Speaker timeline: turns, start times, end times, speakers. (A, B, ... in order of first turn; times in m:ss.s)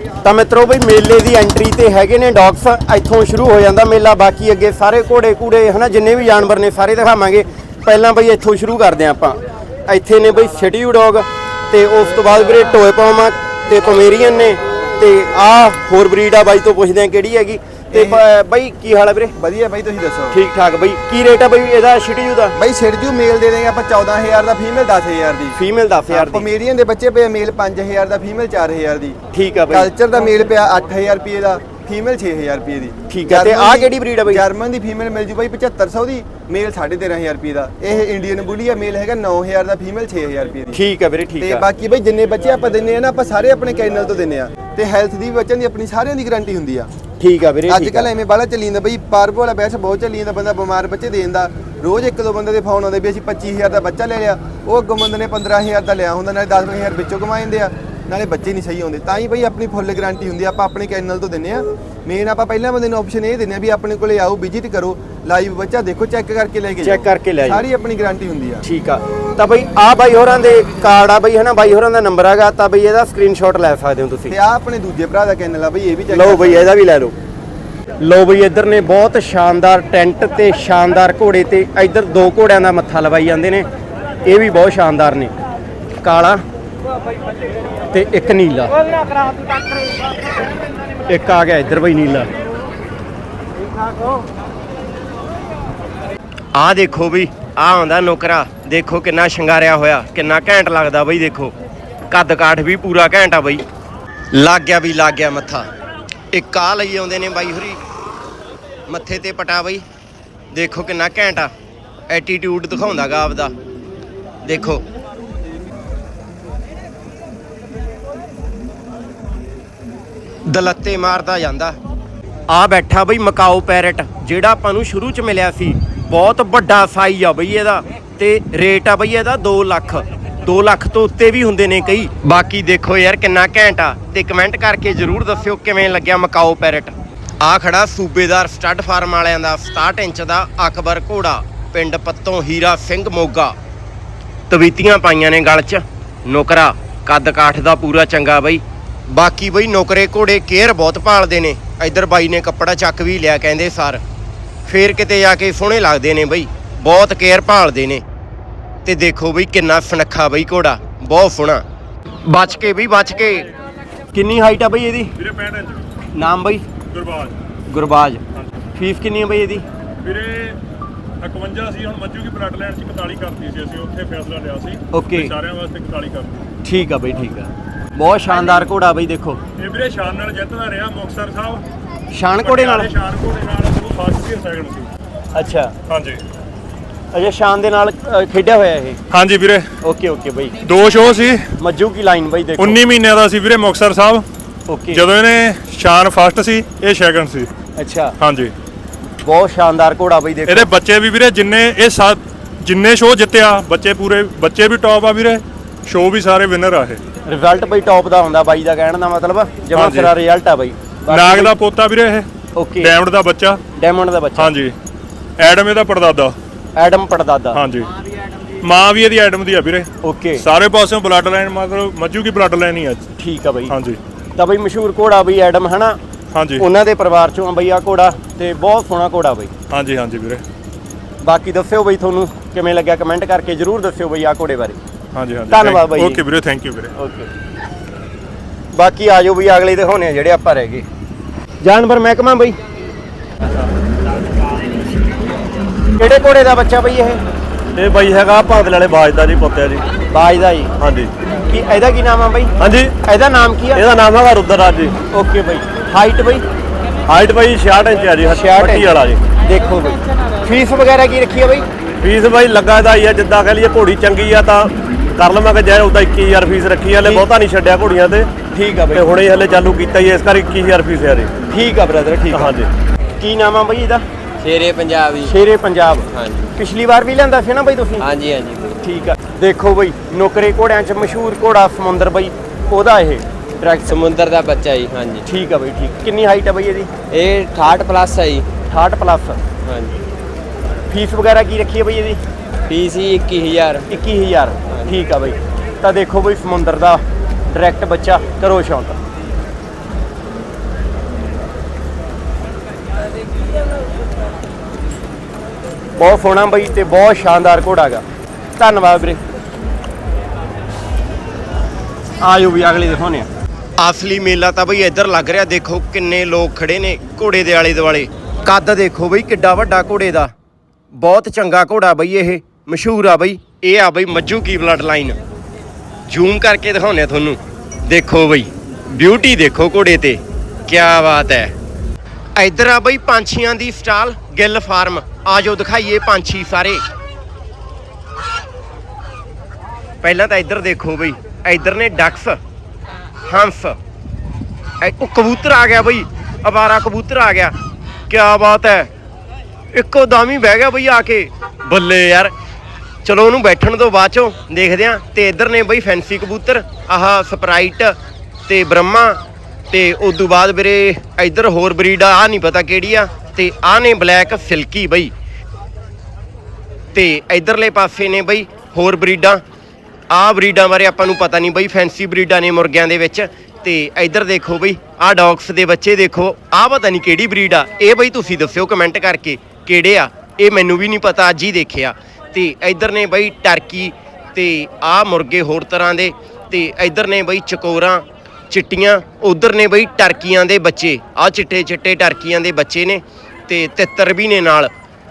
0:00.2-0:19.3 A
0:17.9-0:18.2 B
0:19.4-0:20.4 B
0:20.3-0:22.5 A
0:22.6-0:25.6 B
0:25.5-0:26.5 A
0:26.1-0:29.2 B
0:29.3-0:29.9 A
0:29.7-0:40.8 B
0:33.1-0:34.4 A
0:40.7-0:41.6 A
0:41.4-0:46.9 B
0:47.2-0:48.1 A
0:47.7-1:08.6 B
1:06.8-1:07.6 A
1:08.6-1:14.4 A
1:14.3-1:16.7 B
1:16.1-1:17.1 A
1:18.0-1:23.7 A
1:24.2-1:25.3 A
1:26.0-1:26.4 A
1:27.9-1:28.7 A
1:31.1-1:32.3 A
1:36.5-1:41.5 A
1:42.1-1:43.6 A
1:44.3-1:45.7 A
1:46.3-1:47.8 A
1:48.9-1:49.8 A
1:50.5-1:51.5 A
1:52.1-1:53.5 A
1:54.4-1:54.8 A
2:00.5-2:01.8 A
2:02.5-2:23.5 A
2:24.5-2:34.0 A
2:34.6-2:38.0 A
2:38.8-2:41.6 A
2:42.2-2:43.5 A
2:44.1-2:45.1 A
2:45.2-2:45.9 C
2:46.1-2:46.6 A
2:46.9-2:47.4 C
2:47.7-2:48.2 A
2:48.7-2:49.6 A
2:50.0-2:50.6 C
2:51.2-2:56.5 C
2:54.9-2:55.3 A
2:56.6-2:59.4 A
2:59.6-3:01.6 C
3:02.1-3:02.9 A
3:02.4-3:04.9 C
3:05.3-3:05.7 A
3:05.9-3:06.2 C
3:07.1-3:09.0 A
3:09.1-3:09.7 C
3:09.8-3:10.6 A
3:10.6-3:11.4 C
3:11.6-3:12.8 A
3:12.6-3:14.2 C
3:14.7-3:15.0 A
3:14.9-3:17.5 C
3:17.8-3:18.1 A
3:18.2-3:18.5 C
3:19.2-3:20.7 A
3:20.5-3:27.0 C
3:27.2-3:31.5 A
3:29.7-3:30.1 C
3:31.1-3:32.2 C
3:32.5-3:32.9 A
3:32.8-3:33.6 C
3:33.8-3:34.5 A
3:34.4-3:34.7 C
3:35.4-3:36.3 C
3:36.8-3:37.6 A
3:37.5-3:37.9 C
3:38.6-3:43.0 C
3:40.0-3:40.4 A
3:43.2-3:43.7 A
3:43.7-3:44.0 C
3:44.4-3:46.0 A
3:46.3-3:46.6 C
3:46.6-3:49.5 A
3:49.7-3:50.4 C
3:51.2-3:54.8 A
3:55.1-3:56.9 C
3:55.5-3:56.2 A
3:57.0-3:57.3 A
3:58.7-4:00.8 A
4:01.6-4:02.6 A
4:06.0-4:07.2 A
4:07.7-4:09.8 D
4:10.1-4:10.7 A
4:10.8-4:11.1 D
4:11.4-4:13.8 A
4:12.6-4:12.9 D
4:13.7-4:14.9 D
4:15.1-4:16.4 A
4:17.1-4:19.2 D
4:18.3-4:21.7 A
4:22.0-4:28.3 D
4:28.5-4:29.0 A
4:28.9-4:31.3 D
4:31.5-4:32.5 A
4:32.3-4:32.7 D
4:33.2-4:34.0 A
4:34.4-4:35.3 E
4:35.2-4:38.1 A
4:36.1-4:36.4 E
4:38.0-4:38.8 E
4:38.8-4:44.0 A
4:43.9-4:45.2 E
4:45.2-4:46.9 A
4:47.1-4:48.5 E
4:48.7-4:49.4 A
4:49.6-4:50.0 E
4:50.9-4:52.2 A
4:52.7-4:53.8 E
4:53.9-4:59.0 A
5:06.0-5:08.0 A
5:08.6-5:09.2 A
5:12.2-5:20.3 A
5:20.9-5:25.2 A
5:26.1-5:31.5 A
5:32.4-5:36.8 A
5:40.0-5:42.4 A
5:43.2-5:43.8 A
5:44.8-5:47.5 A
5:48.1-5:48.9 A
5:49.7-5:52.3 A
5:53.0-5:57.9 A
5:58.5-6:05.1 A
6:06.9-6:09.4 A
6:10.1-6:34.7 A